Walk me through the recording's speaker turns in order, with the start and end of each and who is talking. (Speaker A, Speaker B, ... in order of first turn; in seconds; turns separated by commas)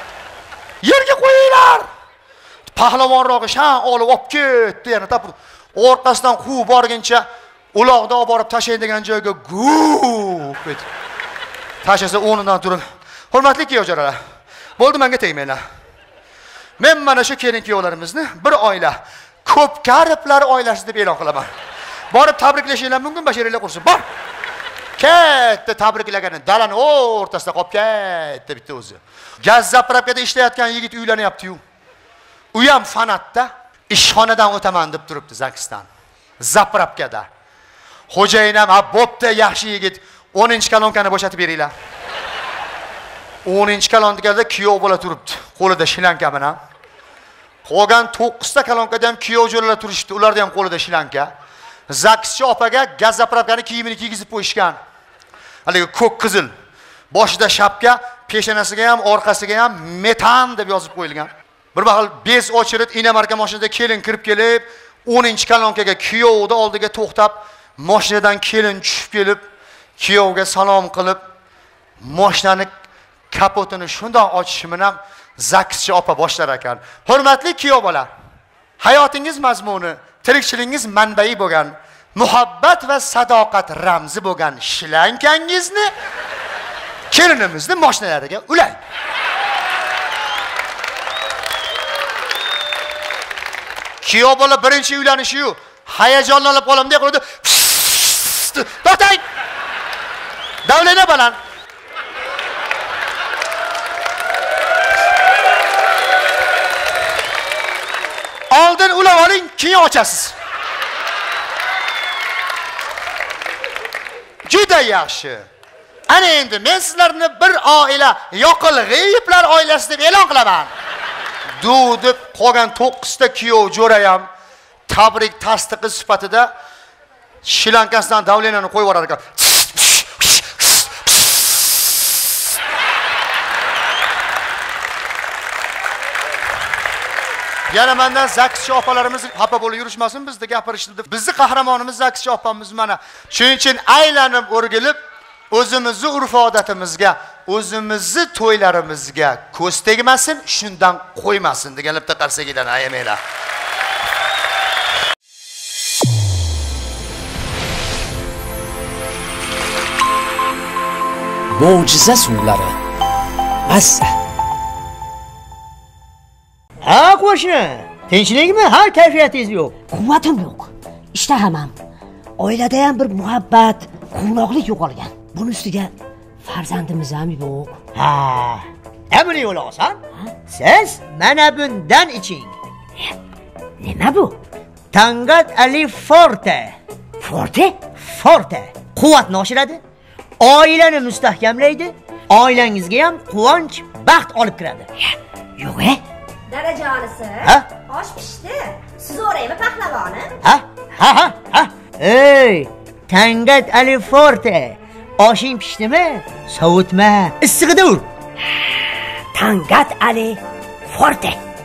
Speaker A: 0.8-1.9, Speaker A: 2.7-10.8, Speaker A: 11.8-14.2, Speaker A: 14.8-15.6, Speaker A: 16.8-21.5, Speaker A: 22.1-24.0, Speaker A: 25.0-31.6, Speaker A: 32.5-35.9, Speaker A: 36.4-37.3, Speaker A: 38.1-41.7, Speaker A: 43.4-46.6, Speaker A: 47.6-51.3, Speaker A: 51.9-54.8, Speaker A: 55.6-56.5, Speaker A: 57.1-69.4, Speaker A: 70.0-71.2, Speaker A: 72.0-72.7, Speaker A: 73.3-78.1, Speaker A: 78.8-85.9, Speaker A: 87.1-88.8, Speaker A: 94.0-99.2, Speaker A: 100.6-101.4, Speaker A: 108.5-110.3, Speaker A: 114.5-115.5, Speaker A: 116.1-120.7, Speaker A: 121.6-124.3, Speaker A: 124.9-126.5, Speaker A: 127.4-132.1, Speaker A: 137.7-145.0, Speaker A: 145.5-153.2, Speaker B: 161.6-162.6, Speaker C: 161.7-162.6, Speaker B: 163.7-164.0, Speaker C: 166.8-169.8, Speaker B: 169.9-171.7, Speaker B: 172.4-175.9, Speaker B: 176.4-177.9, Speaker C: 177.9-182.5, Speaker B: 183.8-184.3, Speaker C: 184.9-189.8, Speaker C: 190.4-194.9, Speaker C: 195.6-196.0, Speaker D: 196.5-200.3, Speaker C: 200.4-208.1, Speaker B: 209.3-211.4